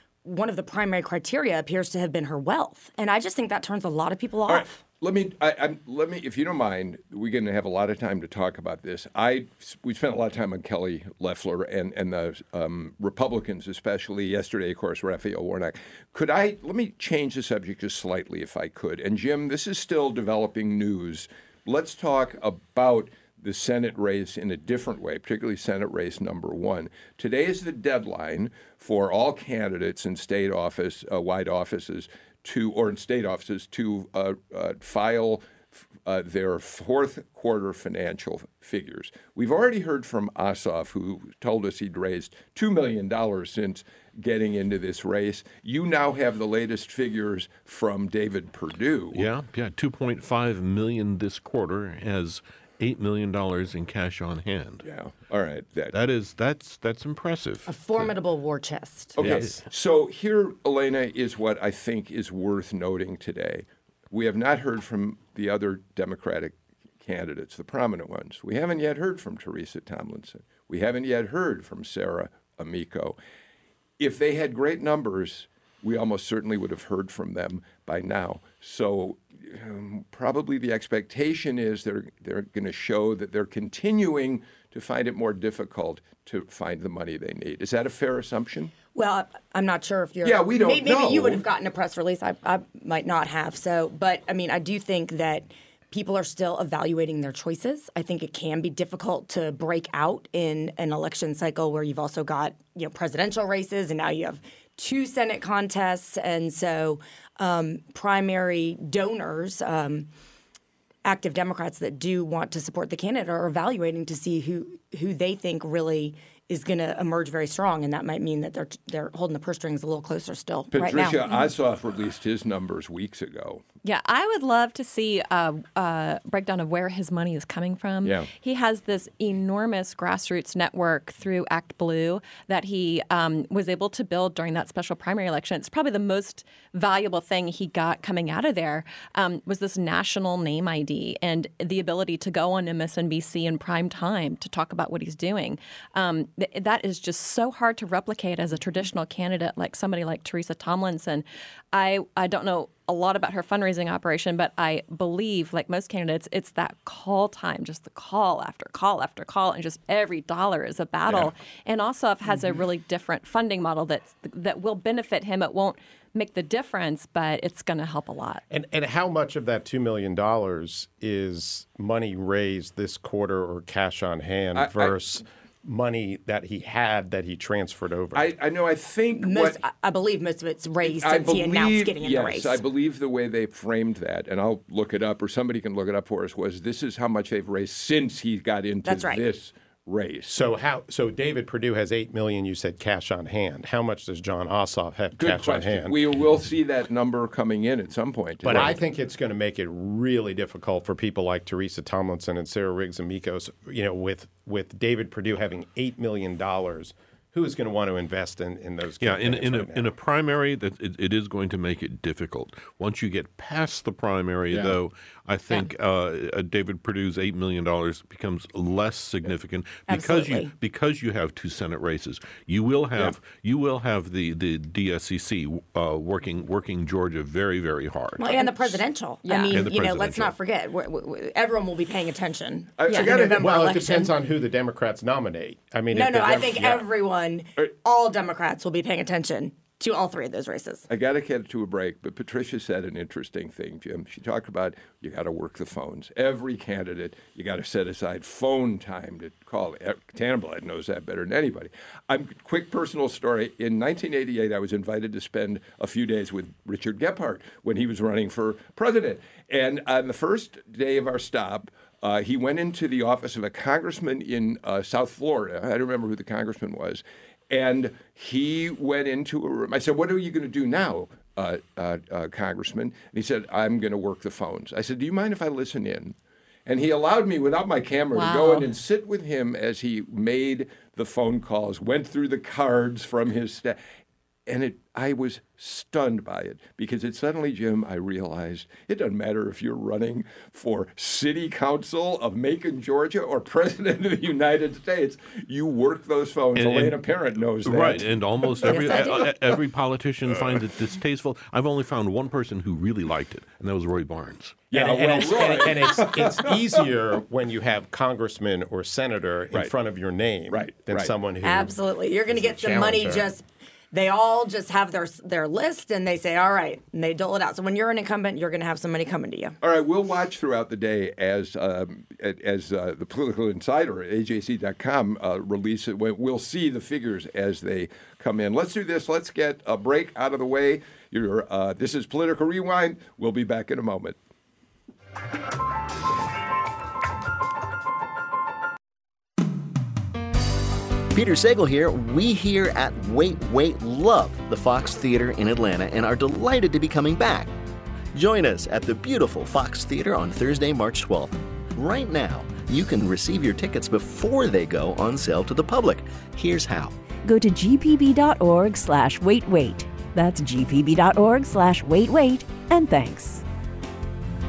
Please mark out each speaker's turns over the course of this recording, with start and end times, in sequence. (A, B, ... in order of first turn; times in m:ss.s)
0:00.2-0:04.7 A
0:04.4-0:35.5 B
0:36.0-0:49.2 B
0:49.1-0:54.8 C
0:54.8-0:55.9 B
0:55.9-0:58.0 C
0:57.7-0:59.2 A
0:59.2-1:13.2 B
0:59.2-0:59.6 C
1:14.0-1:28.7 B
1:28.9-1:50.1 A
1:30.2-1:31.4 B
1:51.0-2:01.2 A
2:00.7-2:03.6 B
2:03.8-2:48.4 D
2:08.0-2:08.3 B
2:48.5-2:58.3 E
2:54.5-2:55.0 B
2:58.1-2:59.6 B
2:59.2-3:02.6 A
3:00.8-3:10.3 B
3:08.8-3:09.2 A
3:10.3-3:16.0 E
3:15.2-3:18.8 B
3:18.4-3:29.9 E
3:29.0-3:48.8 C
3:39.9-3:40.5 A
3:48.2-3:54.1 A
3:49.2-3:49.6 D
3:49.5-3:50.3 C
3:52.8-3:53.6 B
3:53.0-3:56.8 E
3:55.9-4:00.9 A
4:00.9-4:36.1 B
4:36.6-4:43.8 B
4:38.1-4:38.7 D
4:44.5-4:59.2 B
4:56.6-4:57.0 C
4:57.6-5:04.6 C
4:58.9-4:59.3 A
5:04.7-5:06.6 B
5:04.7-5:13.3 E
5:10.5-5:11.1 B
5:11.4-5:19.6 A
5:19.6-5:34.2 B
5:41.1-5:47.5 F
5:48.1-5:56.9 F
5:57.2-6:03.4 G